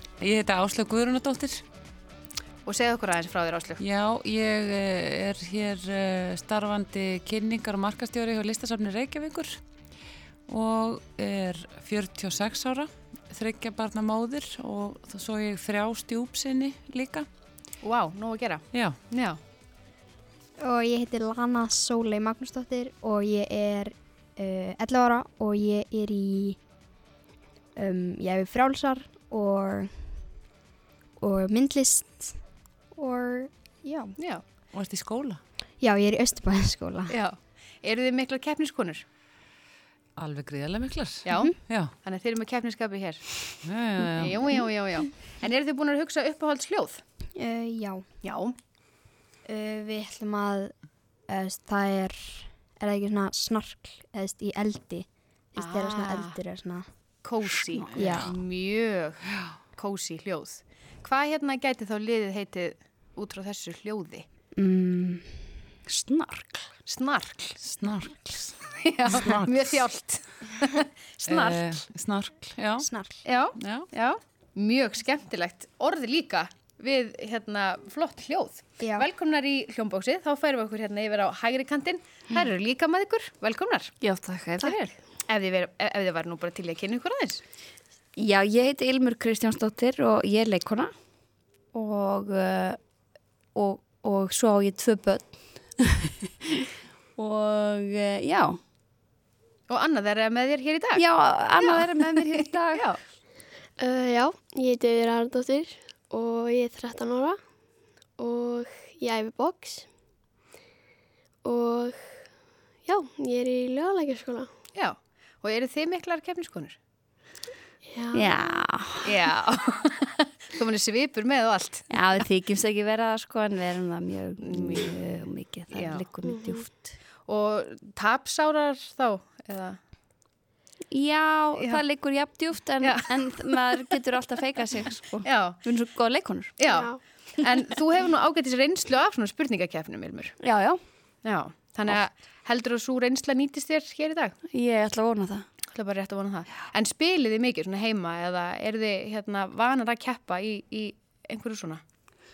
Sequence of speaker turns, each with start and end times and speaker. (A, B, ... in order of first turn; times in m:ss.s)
0:00.2-0:01.6 A
0:02.7-0:03.8 B
0:03.8-0:09.6 A
0:10.5-0:17.3 A
0:17.8-0:19.4 B
0:18.7-0:19.0 A
0:20.6-0:26.6 C
0:27.8-0:30.1 C
0:31.2-0:32.4 C
0:33.0-0:34.2 C
0:34.2-0:34.4 B
0:34.7-0:35.4 A
0:35.8-0:37.2 C
0:37.1-0:39.0 B
0:40.2-0:41.9 A
0:41.2-0:43.4 B
0:43.6-0:44.6 A
0:44.1-0:47.0 B
0:47.4-0:48.0 C
0:48.2-0:48.6 B
0:49.5-0:50.8 C
0:51.3-0:56.9 C
0:55.6-0:56.4 B
0:57.2-0:59.2 B
0:57.8-0:58.3 D
0:57.9-0:58.3 C
0:59.8-1:04.3 B
1:04.6-1:05.3 C
1:05.9-1:06.7 D
1:06.9-1:07.6 B
1:07.6-1:08.5 A
1:08.7-1:11.6 B
1:09.1-1:09.7 A
1:11.3-1:12.9 A
1:12.8-1:13.2 C
1:13.2-1:23.9 B
1:13.6-1:13.9 A
1:18.8-1:19.1 C
1:24.0-1:24.8 D
1:24.6-1:27.4 B
1:28.2-1:30.9 D
1:31.7-1:32.8 D
1:33.6-1:35.9 D
1:37.2-1:38.6 D
1:39.7-1:41.0 B
1:41.0-1:42.9 D
1:41.6-1:42.2 B
1:42.7-1:43.0 B
1:43.8-1:47.4 E
1:48.2-1:49.9 E
1:51.4-1:52.3 E
1:52.8-1:54.5 E
1:54.7-1:56.8 B
1:57.9-1:58.6 E
1:58.1-1:59.1 D
1:59.0-2:01.9 B
2:01.9-2:07.0 D
2:04.4-2:04.9 B
2:05.7-2:06.1 B
2:06.2-2:06.7 E
2:07.3-2:09.8 B
2:10.9-2:16.6 D
2:11.6-2:11.8 B
2:15.2-2:15.6 B
2:16.6-2:20.3 B
2:16.6-2:17.0 E
2:20.4-2:20.8 D
2:21.2-2:24.3 B
2:24.5-2:25.4 D
2:25.7-2:31.8 B